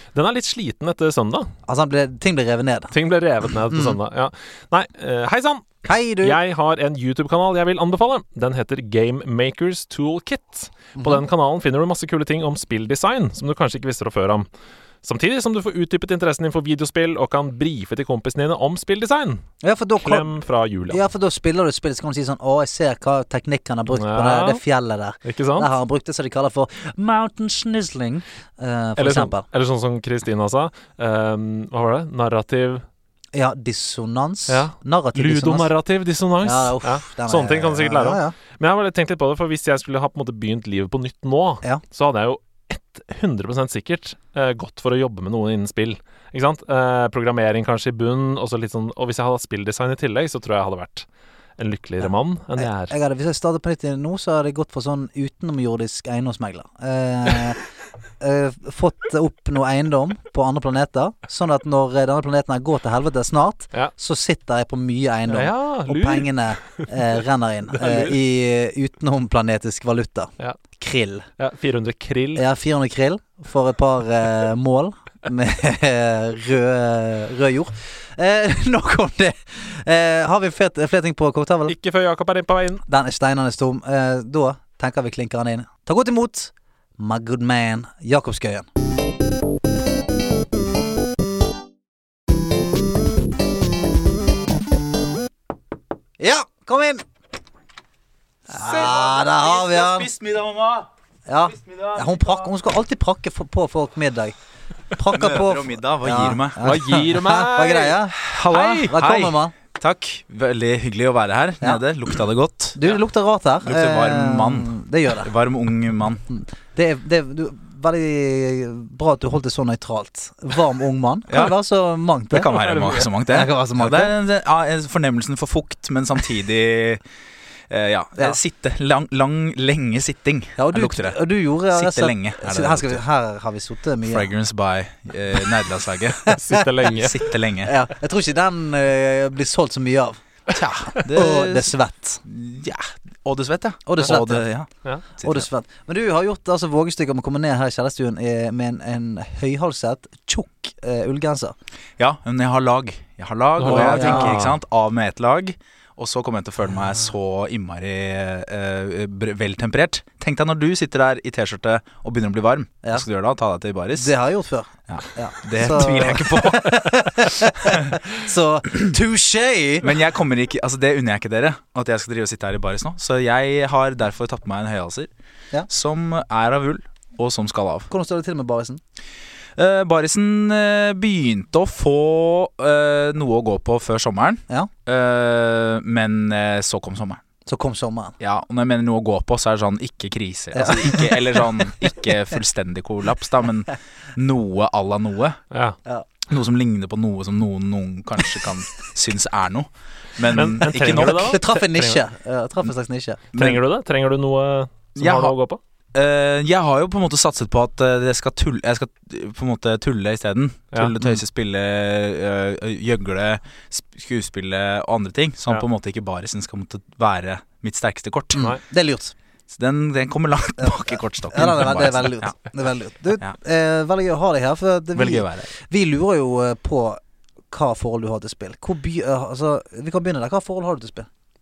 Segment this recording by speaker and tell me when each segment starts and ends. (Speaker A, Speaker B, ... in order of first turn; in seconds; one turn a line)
Speaker A: 0.1-1.5
Speaker B: 1.6-2.9
Speaker A: 2.9-14.5
Speaker B: 3.7-4.0
Speaker B: 5.8-6.4
Speaker B: 11.0-11.2
Speaker A: 15.0-19.4
Speaker B: 19.6-20.3
Speaker A: 20.0-21.0
Speaker B: 20.9-29.4
Speaker A: 23.9-24.6
Speaker A: 25.2-25.7
Speaker A: 29.0-32.8
Speaker B: 33.3-35.7
Speaker A: 34.5-51.1
Speaker B: 36.4-38.3
Speaker A: 51.6-52.9
Speaker B: 52.0-57.6
Speaker B: 58.2-71.3
Speaker A: 65.3-66.9
Speaker A: 67.7-68.2
Speaker A: 71.4-72.4
Speaker B: 72.3-81.7
Speaker A: 81.7-82.8
Speaker B: 82.9-88.7
Speaker B: 96.2-97.0
Speaker B: 98.5-100.1
Speaker C: 98.5-100.9
Speaker B: 101.3-104.3
Speaker C: 101.5-102.4
Speaker B: 104.9-109.5
Speaker C: 105.1-106.8
Speaker A: 106.6-108.9
Speaker C: 108.2-112.8
Speaker B: 112.7-115.3
Speaker C: 113.6-116.2
Speaker B: 116.3-124.1
Speaker C: 121.3-121.5
Speaker C: 122.3-127.0
Speaker A: 122.5-123.0
Speaker C: 127.7-131.2
Speaker B: 130.6-134.3
Speaker C: 131.7-133.0
Speaker C: 134.0-136.3
Speaker A: 136.3-137.2
Speaker C: 136.8-137.7
Speaker B: 137.6-140.2
Speaker C: 140.5-145.5
Speaker B: 141.0-142.2
Speaker B: 143.9-144.4
Speaker B: 145.2-151.5
Speaker C: 152.0-164.1
Speaker A: 153.6-154.5
Speaker B: 153.7-154.5
Speaker B: 163.9-169.9
Speaker C: 164.9-168.0
Speaker C: 169.8-175.1
Speaker C: 175.7-177.9
Speaker B: 177.9-178.8
Speaker C: 179.6-187.2
Speaker B: 187.4-188.1
Speaker C: 188.2-195.4
Speaker B: 190.5-191.2
Speaker A: 195.5-195.8
Speaker C: 196.3-201.4
Speaker A: 200.3-202.0
Speaker B: 200.7-203.2
Speaker C: 203.3-203.6
Speaker A: 203.3-205.6
Speaker C: 205.0-205.3
Speaker C: 205.9-218.5
Speaker B: 218.3-219.1
Speaker C: 219.5-222.4
Speaker B: 220.6-227.0
Speaker C: 224.9-225.5
Speaker B: 227.5-231.1